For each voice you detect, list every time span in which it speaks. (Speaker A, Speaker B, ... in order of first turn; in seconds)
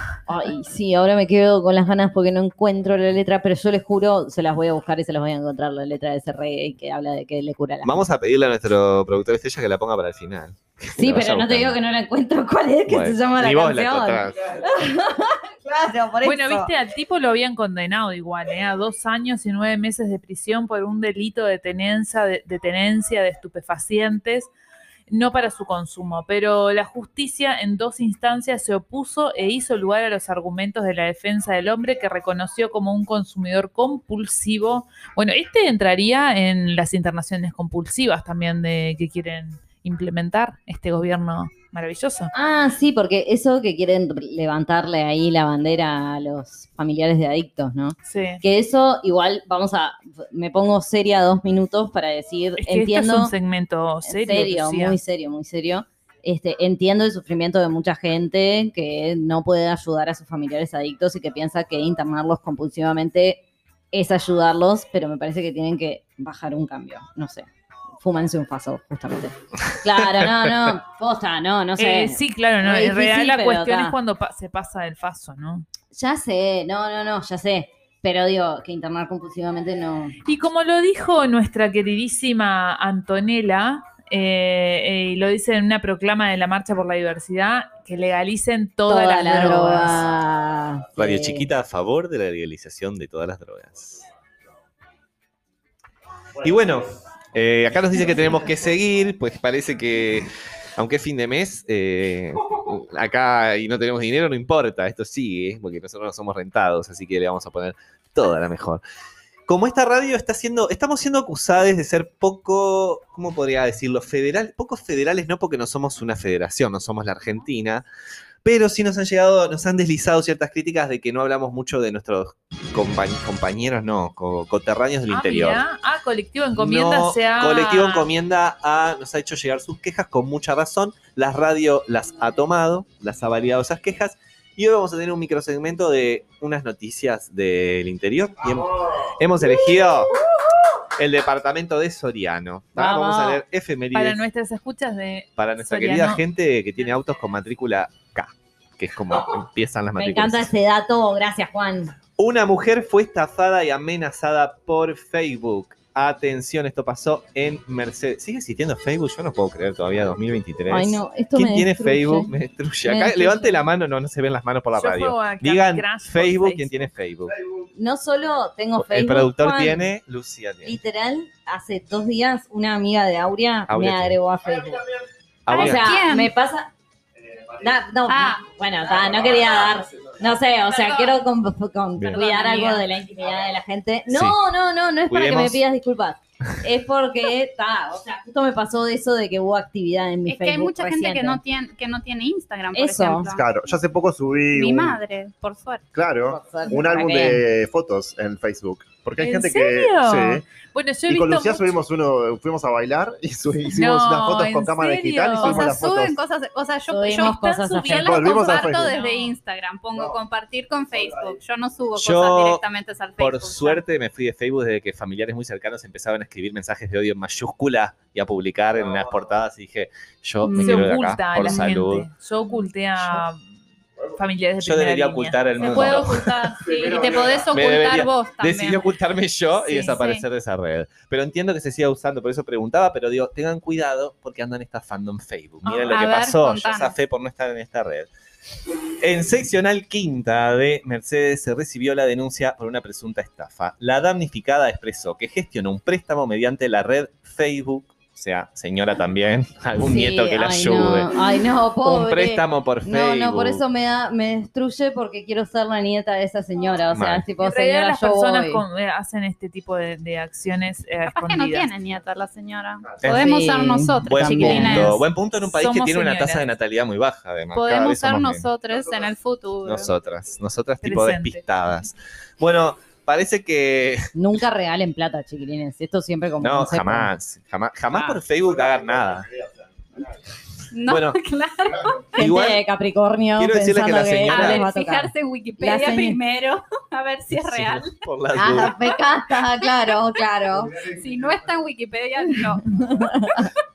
Speaker A: 0.3-8.1, 10.9-16.7, 42.3-53.3, 54.0-67.5, 68.0-74.0, 75.9-80.2, 88.9-91.5, 142.8-143.4, 149.9-152.0, 160.7-162.3, 162.8-163.6, 167.8-169.9, 170.6-174.8, 175.5-176.7, 177.6-191.4, 192.7-193.3, 196.3-197.4, 206.9-208.7, 249.8-258.6, 263.1-265.0, 274.1-277.1, 282.2-286.2, 288.3-290.8, 292.8-293.5
Speaker B: 7.8-11.8, 12.9-14.4, 70.2-70.5, 91.0-94.0, 96.4-108.8, 109.5-117.8, 118.4-125.6, 126.6-140.1, 141.0-144.2, 145.4-150.5, 152.2-167.4, 168.8-170.8, 173.7-174.2, 175.5-176.0, 184.1-184.4, 185.1-185.6, 212.0-212.6, 213.2-222.1, 224.6-226.6, 227.5-238.1, 239.0-251.1, 251.8-253.6, 256.9-257.2, 263.0-263.3, 264.0-268.5, 269.6-274.1, 276.4-279.3, 280.9-281.2, 282.2-282.6, 283.4-284.6, 287.3-288.8
Speaker C: 16.2-24.5, 25.1-42.3, 48.1-48.4, 52.6-55.0, 71.8-75.7, 80.2-90.0, 125.1-128.1, 143.9-146.2, 164.8-166.9, 199.2-201.8, 203.7-205.7, 207.8-209.3, 220.6-223.5, 224.2-226.2, 257.4-261.7, 265.4-266.5, 270.8-271.4
Speaker D: 175.5-176.3, 178.1-178.5, 180.7-181.2, 182.1-182.8, 190.3-193.5, 194.5-195.8, 205.3-213.8, 220.4-221.6, 225.6-228.9, 229.6-230.2, 235.6-236.9, 261.1-265.0, 267.5-269.9, 280.7-282.2, 284.2-288.0, 288.6-288.9, 289.4-290.0, 290.8-293.1
Speaker E: 177.2-177.6, 178.9-180.1, 193.3-195.0, 195.9-200.5, 201.1-206.2, 207.9-208.9, 226.7-227.4, 278.6-279.7